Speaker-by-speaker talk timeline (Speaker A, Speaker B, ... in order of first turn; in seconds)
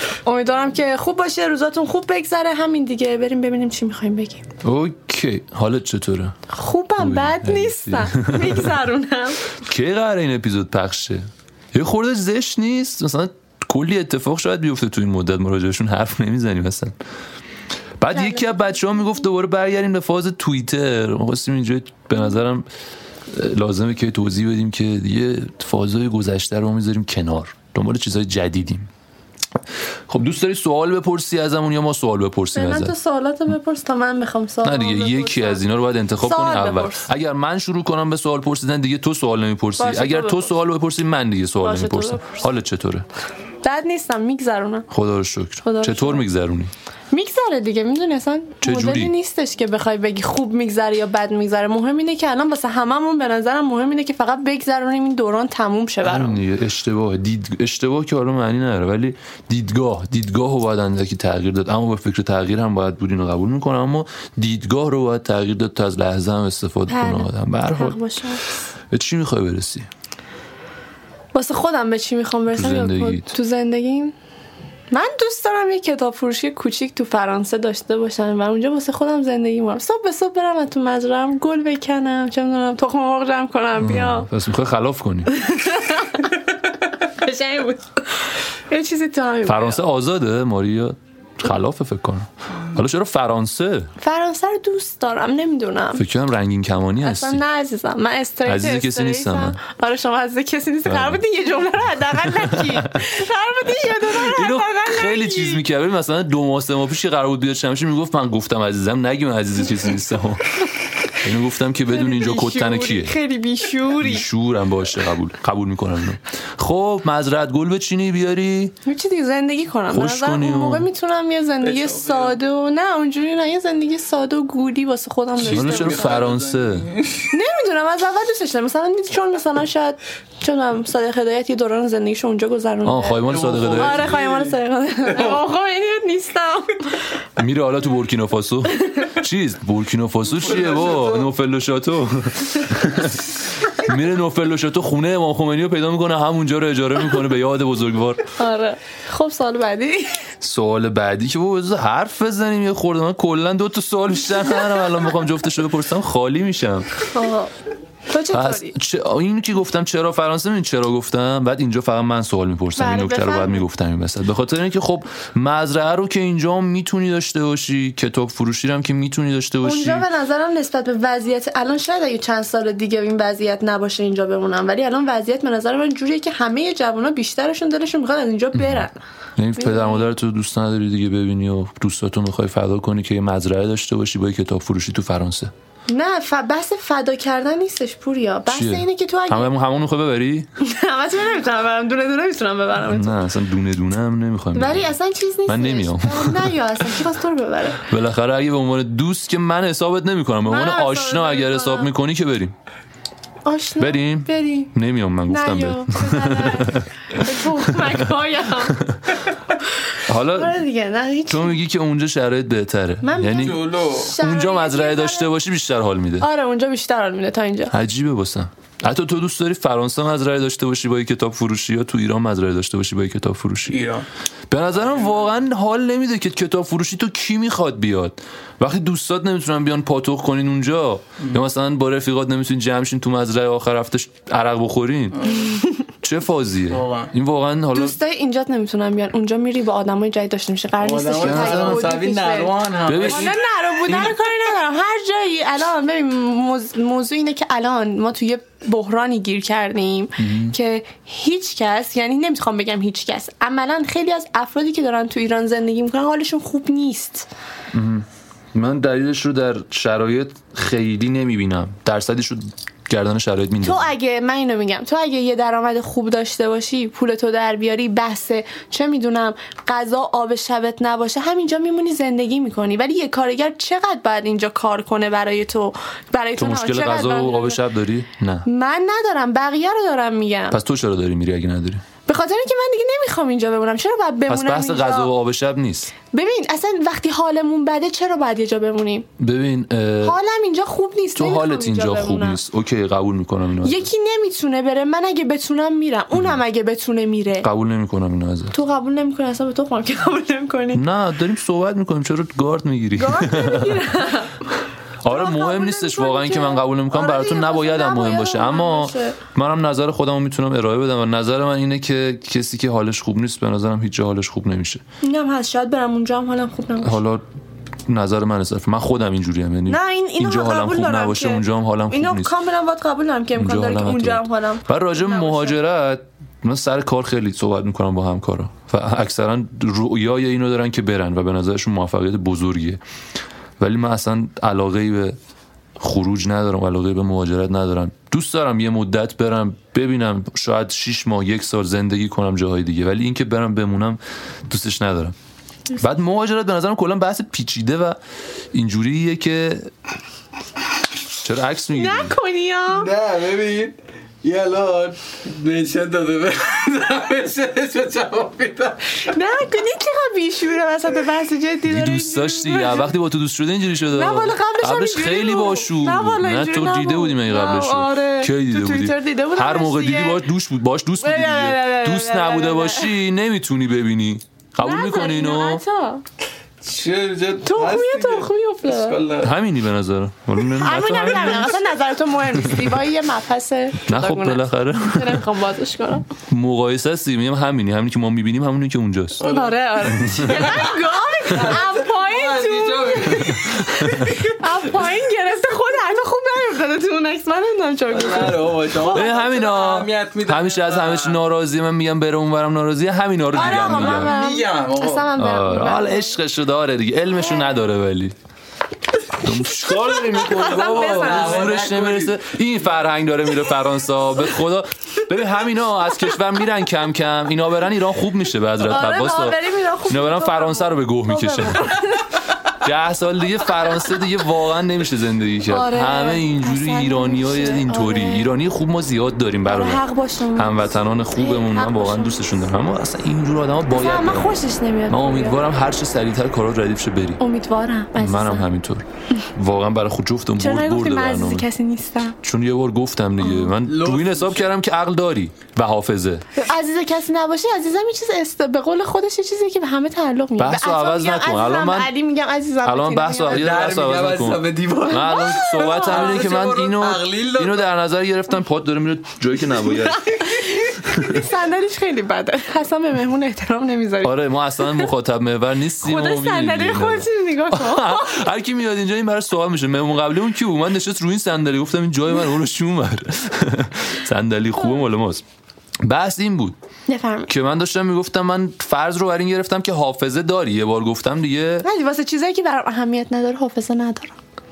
Speaker A: 0.2-4.4, 6.5-9.4, 18.1-18.8, 32.5-35.6, 36.2-37.1, 39.8-40.5, 41.6-42.3, 43.6-44.9, 45.6-46.2, 47.1-56.4, 66.9-68.4, 71.3-74.1, 74.9-84.3, 85.3-86.4, 87.0-89.8, 94.0-96.0, 97.0-105.6, 111.9-114.2, 118.8-126.2, 127.3-137.0, 148.4-150.2, 157.1-157.5, 158.1-158.7, 162.8-163.6, 169.6-179.0, 179.6-180.1, 185.9-189.5, 190.6-193.2, 194.5-197.8, 200.5-201.9, 203.4-204.7, 205.3-208.8, 210.3-211.6, 213.0-215.3, 216.2-217.7, 237.7-257.3, 263.6-277.6, 278.4-280.6, 282.1-285.1, 286.1-289.1, 290.0-292.4, 293.6-297.5, 298.5-300.8, 302.9-304.5, 305.1-309.2, 315.0-317.0, 319.7-325.6, 351.7-352.9, 359.1-362.9, 363.9-370.2, 371.0-372.9, 374.6-376.0, 377.4-379.0, 380.4-386.0, 389.2-399.2, 403.3-406.1, 409.5-411.5, 418.6-422.1, 425.5-428.3, 429.4-432.4, 433.7-435.4, 437.2-438.5, 440.4-442.1, 443.2-443.5, 446.4-453.6, 454.9-456.2, 460.0-464.9, 465.8-468.2, 476.9-477.3, 481.6-484.1
Speaker B: 4.6-6.4, 7.0-8.7, 9.6-16.9, 18.0-22.7, 23.3-28.9, 30.1-32.9, 34.6-43.0, 44.9-46.7, 48.6-49.1, 56.0-68.0, 68.9-69.9, 72.5-73.3, 83.8-85.3, 89.4-93.9, 95.9-97.4, 98.4-99.6, 100.8-101.2, 102.4-103.0, 104.1-113.1, 114.0-118.7, 119.9-120.9, 125.4-126.9, 132.8-134.1, 137.4-148.3, 150.4-157.0, 158.3-170.0, 178.5-185.5, 188.5-190.5, 192.9-194.9, 195.5-196.5, 197.8-202.5, 203.8-208.1, 208.7-209.0, 210.0-210.6, 211.3-216.3, 217.7-223.8, 224.5-235.4, 236.0-238.0, 241.2-241.9, 242.8-244.1, 250.2-250.5, 257.7-263.9, 276.4-278.5, 280.5-281.8, 284.3-285.9, 289.2-290.2, 291.1-293.9, 297.4-298.5, 300.7-303.8, 305.0-314.8, 316.8-317.2, 317.9-322.3, 323.3-332.8, 333.6-335.2, 335.8-345.1, 345.8-348.0, 348.5-349.7, 351.2-352.1, 361.6-375.6, 379.2-381.6, 383.9-385.2, 386.2-389.2, 390.0-390.5, 393.5-394.1, 398.8-404.1, 405.2-408.1, 409.2-421.8, 422.6-429.8, 430.4-434.4, 434.9-437.2, 438.0-441.4, 442.2-446.2, 450.4-451.9, 452.6-460.2, 460.8-461.2, 464.0-475.2, 475.8-476.6, 477.3-481.6
Speaker C: 121.6-122.4, 125.4-127.3, 133.2-134.6, 135.1-135.4, 140.3-141.3, 213.3-214.2, 223.7-224.1, 224.9-225.3, 235.2-235.5, 236.7-237.1, 240.8-243.3, 352.7-359.1, 376.6-379.3, 389.2-394.2, 397.9-401.2, 403.3-405.1, 410.4-412.2, 443.6-444.5, 453.3-457.7